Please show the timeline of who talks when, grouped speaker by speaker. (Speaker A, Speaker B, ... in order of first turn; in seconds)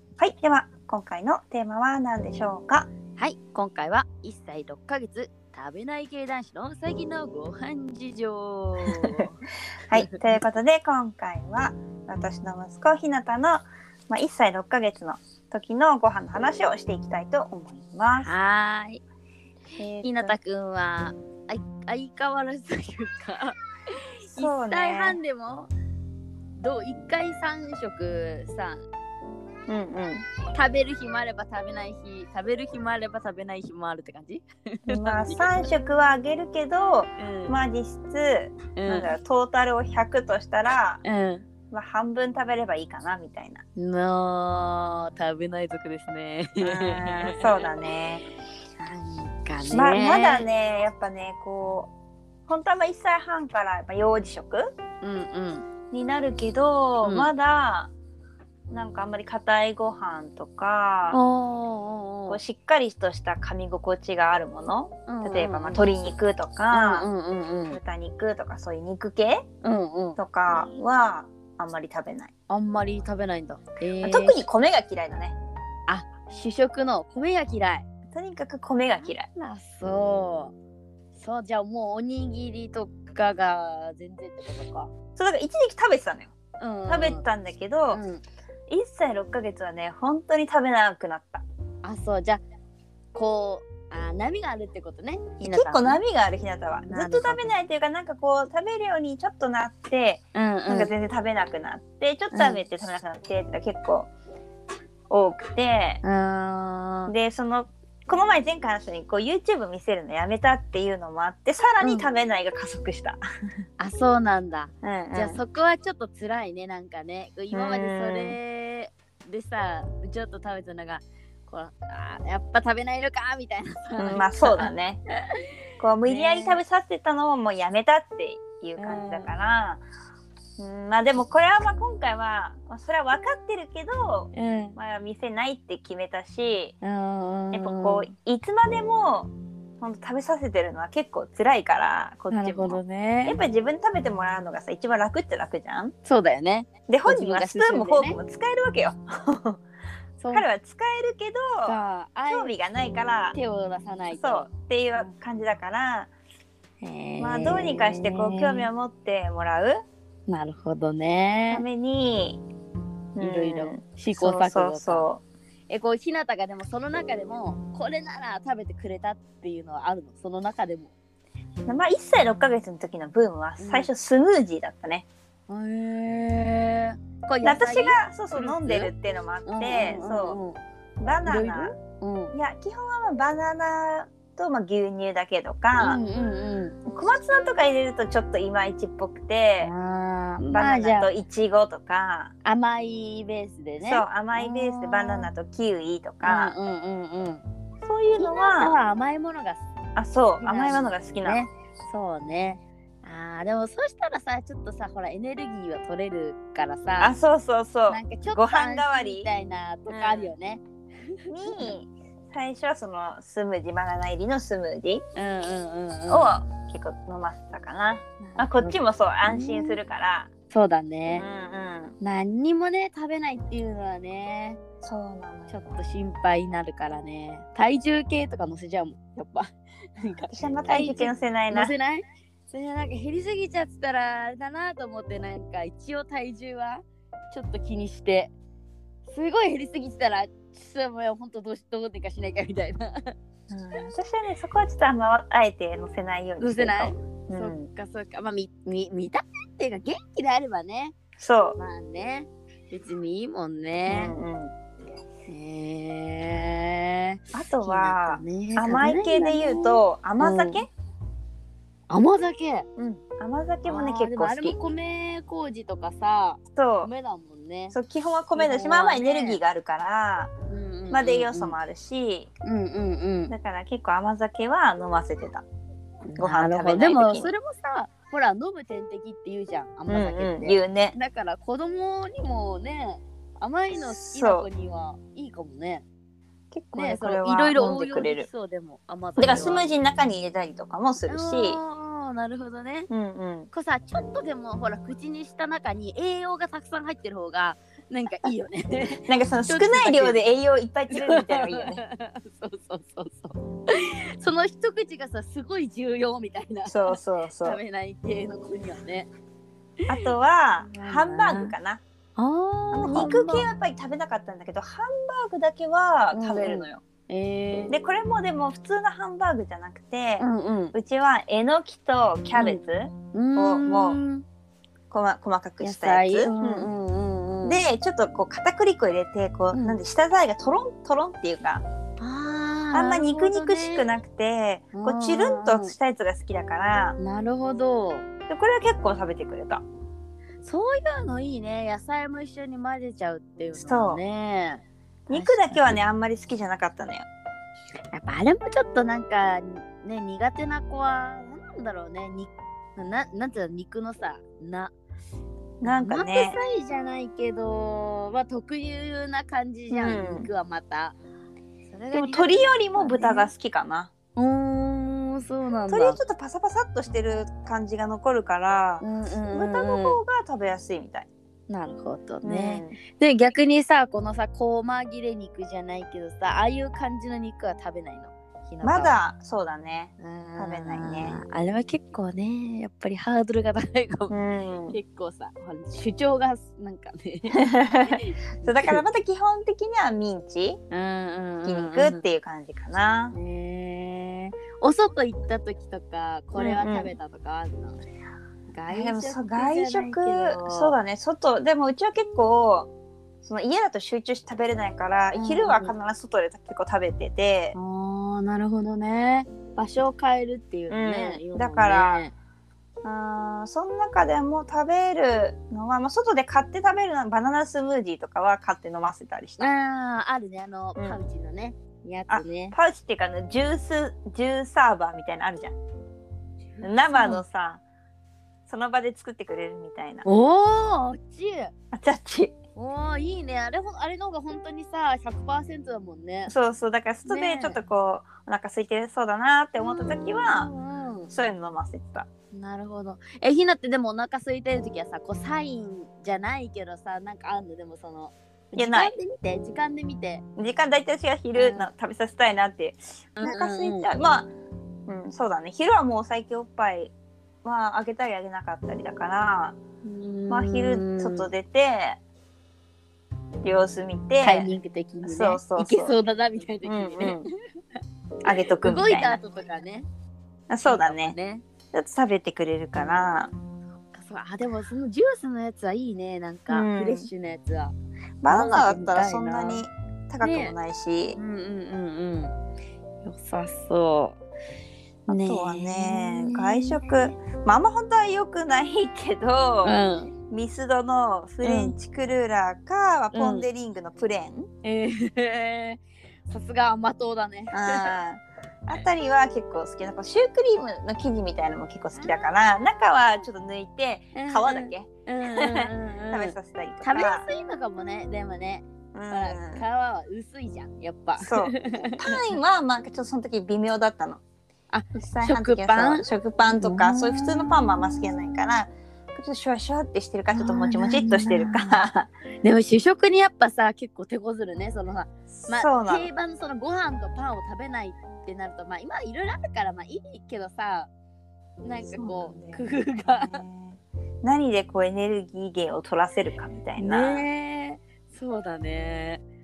Speaker A: 0.2-2.9, 9.9-18.3, 19.8-20.3, 24.3-25.2, 29.7-30.2, 34.9-41.0, 41.7-43.6, 46.6-48.2, 49.7-51.9, 52.5-54.6, 55.9-57.9, 58.7-61.2, 62.3-67.1, 67.7-69.4, 70.2-72.3, 74.0-75.3, 78.1-79.3, 85.2-86.3, 86.9-88.0, 88.7-91.4, 95.4-104.1, 105.1-106.0, 107.1-113.2, 114.8-115.4, 117.5-118.4, 124.0-125.0, 125.8-129.8, 130.6-136.7, 137.5-145.9, 146.9-149.6, 150.3-153.4, 154.1-156.1, 157.2-159.8, 161.5-162.4, 163.2-165.2, 171.7-175.1, 177.4-180.4, 181.0-181.8, 182.3-186.0, 186.9-189.7, 190.5-192.3, 193.8-196.5, 197.8-198.8, 199.9-201.5, 207.0-209.3, 209.9-210.3, 211.3-215.0, 216.1-220.3, 221.1-221.9, 224.8-225.7, 230.3-231.7, 243.5-247.6, 251.2-251.6, 253.9-254.5, 257.3-260.7, 262.8-264.6, 266.6-266.9, 267.7-270.3, 270.9-272.3, 273.3-275.4, 276.2-277.3, 279.9-280.9, 283.7-284.5, 286.5-288.3, 289.2-291.6, 292.9-293.5, 299.0-301.8, 306.6-307.6, 309.9-311.8, 312.7-316.8, 317.7-324.0, 324.9-326.7, 327.4-331.6, 332.7-337.0, 338.3-339.6, 343.5-344.0, 345.1-347.1, 355.6-356.4, 359.7-360.3, 361.9-363.9, 365.7-371.1, 372.2-372.8, 378.6-381.2, 384.1-384.8, 387.3-390.6, 391.4-393.1, 396.4-396.9, 398.7-402.7, 403.2-407.6, 410.7-412.1, 412.8-419.5, 422.1-425.6, 426.6-427.6, 428.5-430.0, 431.7-432.4, 436.3-440.5, 441.1-442.1, 448.6-448.9, 450.4-454.3, 454.9-456.9, 457.4-459.6, 460.3-462.0, 463.4-464.5, 465.0-465.9, 466.6-467.3, 468.2-469.2, 470.5-471.1, 471.7-473.3, 476.5-477.1, 478.2-481.2, 485.1-489.8, 490.3-494.5, 497.5-507.3, 508.9-509.6, 511.2-514.2, 515.0-522.1, 525.4-526.1, 531.8-537.2
Speaker B: 3.2-9.4, 9.9-10.2, 18.2-19.0, 20.0-25.7, 26.6-28.8, 30.5-35.4, 37.2-37.6, 38.8-39.1, 41.0-41.4, 43.8-47.6, 48.8-50.5, 55.0-55.6, 57.0-57.3, 61.1-62.4, 65.1-65.8, 66.7-67.8, 69.6-70.2, 72.5-74.4, 75.9-77.8, 79.0-80.5, 81.1-84.9, 86.6-87.2, 87.9-88.2, 91.8-92.4, 93.1-96.0, 96.9-97.5, 100.3-100.9, 102.3-102.6, 106.0-107.1, 111.8-112.1, 113.8-124.7, 126.0-126.6, 128.8-129.3, 134.3-134.8, 136.8-138.1, 142.3-143.4, 146.0-148.2, 150.2-150.5, 151.6-152.5, 153.3-155.1, 156.8-158.7, 160.3-161.6, 163.2-165.1, 165.7-170.9, 173.6-173.9, 175.5-178.9, 179.4-180.6, 181.2-182.3, 185.8-186.8, 189.6-191.1, 192.4-195.3, 196.2-197.4, 198.1-199.6, 200.4-207.1, 207.9-210.6, 211.5-211.7, 215.1-216.3, 218.3-219.8, 220.5-221.2, 222.0-224.6, 225.5-238.3, 239.1-243.1, 246.4-250.9, 251.6-254.1, 255.3-260.6, 261.9-262.7, 263.6-267.8, 268.4-269.4, 270.5-271.6, 272.4-273.3, 276.0-285.8, 286.7-289.7, 291.1-292.9, 293.5-300.2, 300.9-309.1, 310.6-311.5, 312.2-313.5, 316.1-317.7, 320.2-320.7, 323.1-324.2, 325.6-327.6, 329.5-329.8, 332.0-333.9, 334.7-335.7, 337.0-338.1, 340.4-345.8, 347.9-354.7, 355.6-360.9, 361.7-363.3, 364.1-366.0, 368.8-370.0, 371.5-379.0, 380.0-384.2, 384.7-388.8, 390.7-392.0, 393.1-397.8, 398.5-400.7, 405.1-405.7, 407.5-412.1, 419.4-422.5, 426.6-427.2, 430.0-431.5, 432.6-436.3, 437.1-437.6, 439.6-441.1, 442.3-450.2, 451.3-451.7, 453.2-453.9, 459.8-461.3, 464.2-467.3, 468.6-469.9, 470.6-471.4, 473.9-477.7, 478.3-479.6, 480.2-480.6, 481.2-482.3, 483.0-484.2, 485.1-487.1, 489.6-490.1, 491.4-491.7, 493.1-493.5, 494.6-497.9, 501.9-502.3, 504.1-512.3, 514.7-516.0, 516.5-517.8, 520.3-521.8, 522.4-530.9, 531.6-533.4, 536.8-539.2